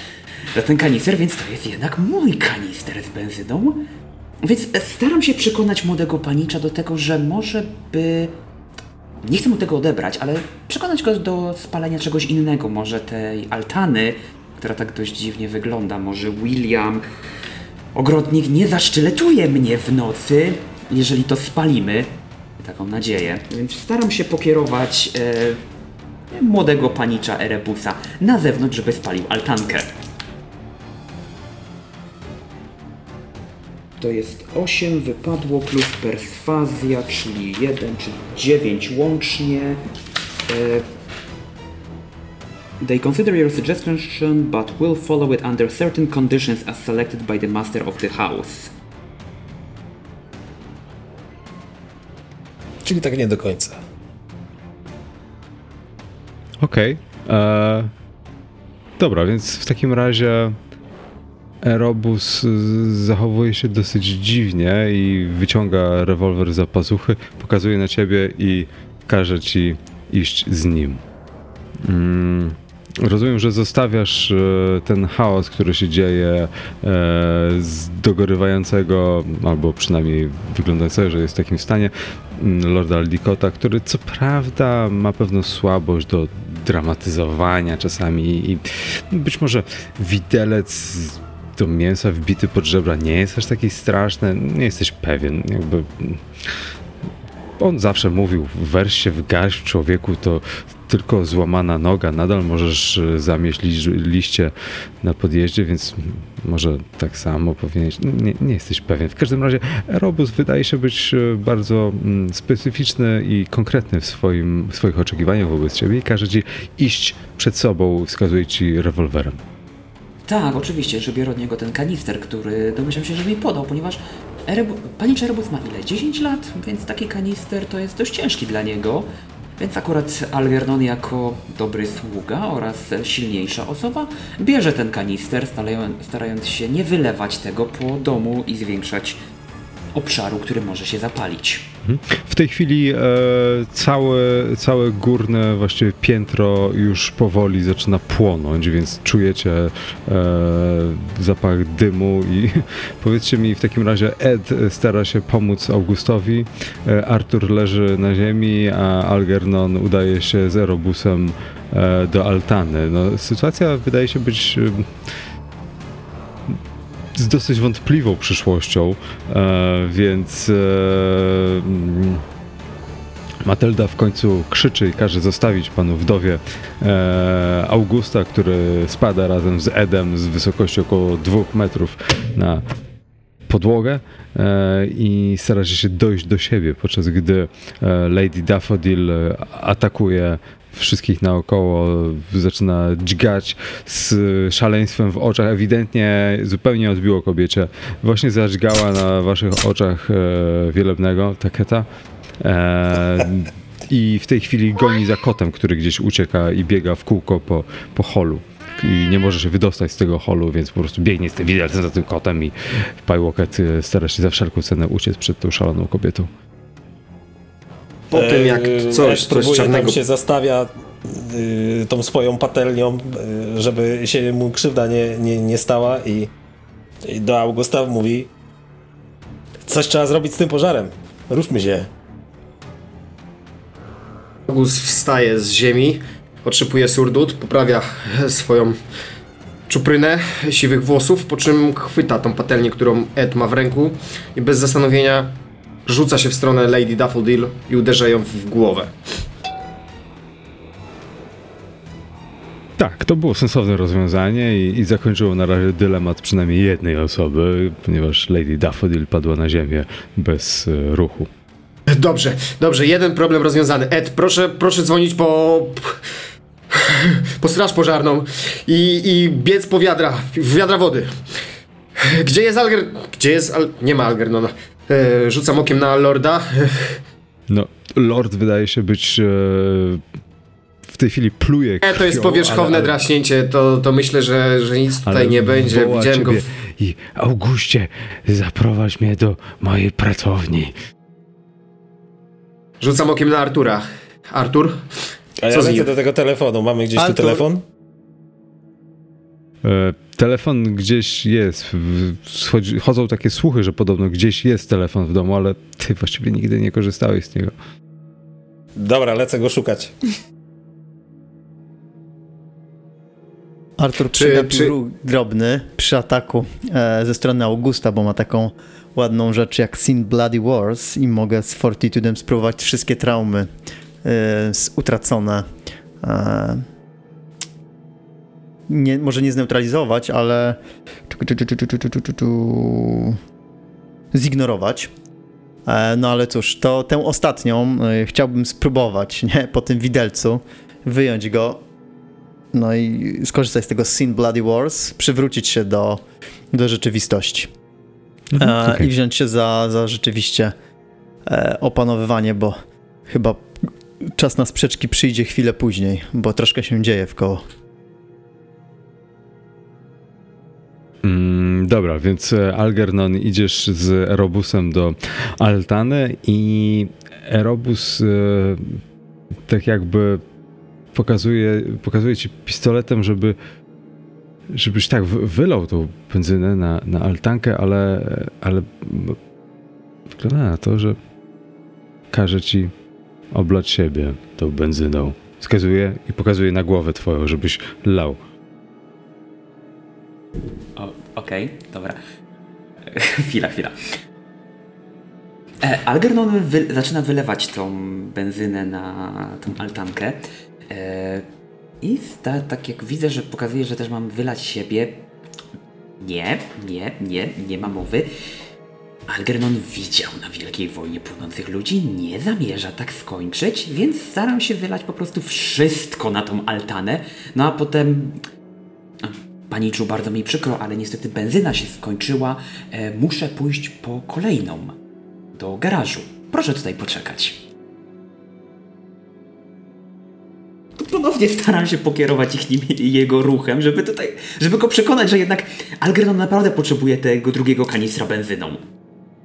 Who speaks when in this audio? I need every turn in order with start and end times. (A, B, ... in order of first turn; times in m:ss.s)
0:00.5-0:03.9 A
0:04.4-0:08.4 A
0:09.2-0:17.0 A
0:17.9-0:25.6 A
0:26.3-0:29.9 A
0:34.0-0:39.8 A
0:40.5-0:40.8 A
0:42.8-0:48.7 A
0:52.8-0:53.8 B
0:56.6-0:57.9 C
0:59.0-1:00.6 C
1:01.6-1:11.0 C
1:11.8-1:36.2 C
1:37.6-1:59.4 C
2:00.2-2:19.2 A
2:19.9-2:21.7 A
2:21.8-2:44.9 C
2:47.1-2:52.2 C
2:53.4-3:02.6 C
3:03.5-3:21.8 C
3:22.4-3:36.3 C
3:38.1-3:40.0 D
3:38.1-3:46.3 B
3:47.0-3:48.3 B
3:49.6-3:51.9 B
3:54.5-3:58.8 D
3:59.7-4:05.3 D
4:05.8-4:08.9 D
4:12.8-4:21.3 C
4:21.9-4:26.0 D
4:26.7-4:31.1 D
4:32.0-4:37.0 D
4:37.5-4:40.0 C
4:40.9-4:43.0 C
4:41.8-4:46.4 D
4:45.0-4:50.7 C
4:52.8-4:54.8 D
4:55.4-4:57.6 B
4:55.5-4:55.9 D
4:57.0-4:57.4 E
4:59.6-5:07.5 C
5:08.8-5:10.0 B
5:13.8-5:23.5 E
5:14.1-5:14.7 D
5:24.0-5:25.5 E
5:26.0-5:26.6 E
5:28.7-5:33.2 E
5:34.1-5:34.9 E
5:35.6-5:41.6 E
5:42.5-5:47.5 E
5:48.3-5:48.9 C
5:48.4-5:50.5 E
5:51.2-5:57.4 E
6:01.0-6:08.8 C
6:09.5-6:10.2 C
6:10.9-6:13.4 C
6:14.5-6:19.2 C
6:20.1-6:21.0 C
6:22.1-6:22.7 C
6:23.3-6:28.2 C
6:30.8-6:32.0 A
6:32.8-6:33.7 A
6:35.6-6:41.2 A
6:41.8-6:45.0 A
6:46.0-6:48.1 A
6:49.1-6:58.2 A
6:59.0-7:04.8 A
7:05.3-7:07.4 A
7:10.8-7:18.6 A